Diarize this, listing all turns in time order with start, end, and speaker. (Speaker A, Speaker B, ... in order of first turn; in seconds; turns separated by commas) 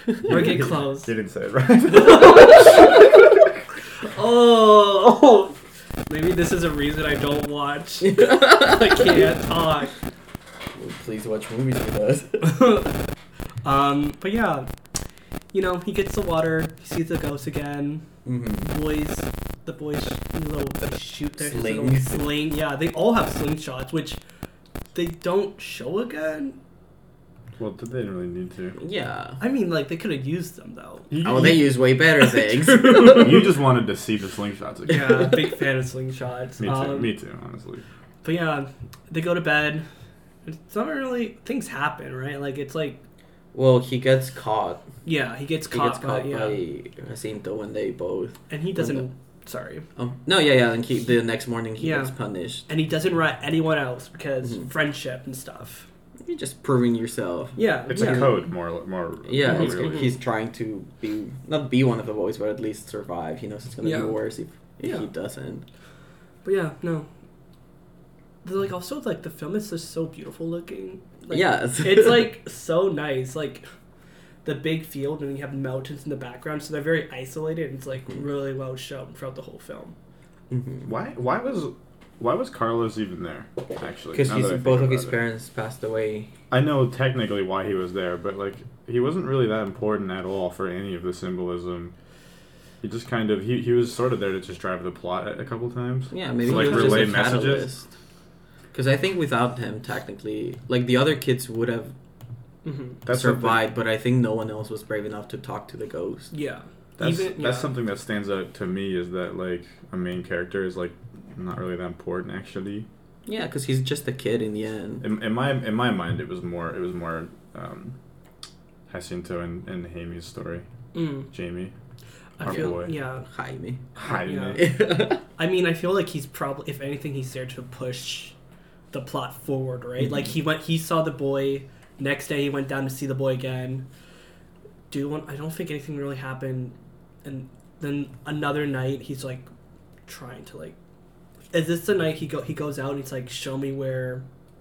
Speaker A: 0.2-3.0, Speaker B: 0.3-1.1, Speaker B: 1.9-3.1, Speaker B: 4.0-5.6, Speaker B: 6.1-9.9, Speaker C: 8.0-9.2, Speaker C: 10.8-12.6, Speaker B: 12.4-12.9, Speaker B: 13.6-14.7, Speaker B: 15.5-18.0, Speaker C: 18.2-18.7, Speaker B: 18.7-24.2, Speaker C: 21.4-22.3, Speaker B: 24.9-26.6, Speaker A: 27.6-28.8, Speaker C: 28.8-29.4, Speaker B: 29.4-31.1, Speaker A: 31.1-31.7, Speaker C: 31.2-33.5, Speaker B: 32.2-33.5, Speaker A: 33.0-35.3, Speaker B: 34.9-37.1, Speaker A: 36.6-37.8, Speaker B: 38.2-39.9, Speaker B: 40.5-43.0, Speaker C: 43.5-44.8, Speaker B: 45.0-46.6, Speaker C: 45.7-49.1, Speaker B: 48.5-49.9, Speaker C: 50.0-52.7, Speaker B: 51.8-52.1, Speaker B: 52.7-55.9, Speaker C: 56.2-58.4, Speaker B: 57.6-58.3, Speaker A: 57.9-60.1, Speaker C: 59.3-65.7, Speaker B: 59.5-60.1, Speaker B: 63.8-64.2, Speaker B: 66.5-67.1, Speaker B: 68.4-73.7, Speaker C: 71.3-72.3, Speaker B: 74.4-80.0, Speaker C: 80.5-80.9, Speaker A: 80.8-85.2, Speaker C: 84.1-86.3, Speaker A: 86.5-91.9, Speaker A: 92.8-97.7, Speaker C: 96.1-97.9, Speaker B: 96.5-97.2, Speaker C: 98.7-101.9, Speaker B: 102.7-103.0, Speaker A: 103.1-103.6, Speaker C: 103.1-106.3, Speaker B: 106.3-107.7, Speaker A: 107.0-112.9, Speaker C: 113.3-115.0, Speaker A: 115.0-118.0, Speaker A: 118.9-120.6, Speaker B: 120.9-121.3, Speaker A: 121.3-121.7, Speaker B: 122.4-123.3, Speaker A: 122.4-122.9, Speaker C: 122.5-122.7, Speaker C: 123.3-123.8, Speaker A: 124.0-124.8, Speaker B: 124.1-124.8, Speaker C: 124.5-125.2, Speaker B: 125.4-128.3, Speaker B: 128.9-133.9, Speaker C: 130.0-130.3, Speaker B: 134.9-139.5, Speaker B: 140.1-140.8, Speaker B: 141.5-144.2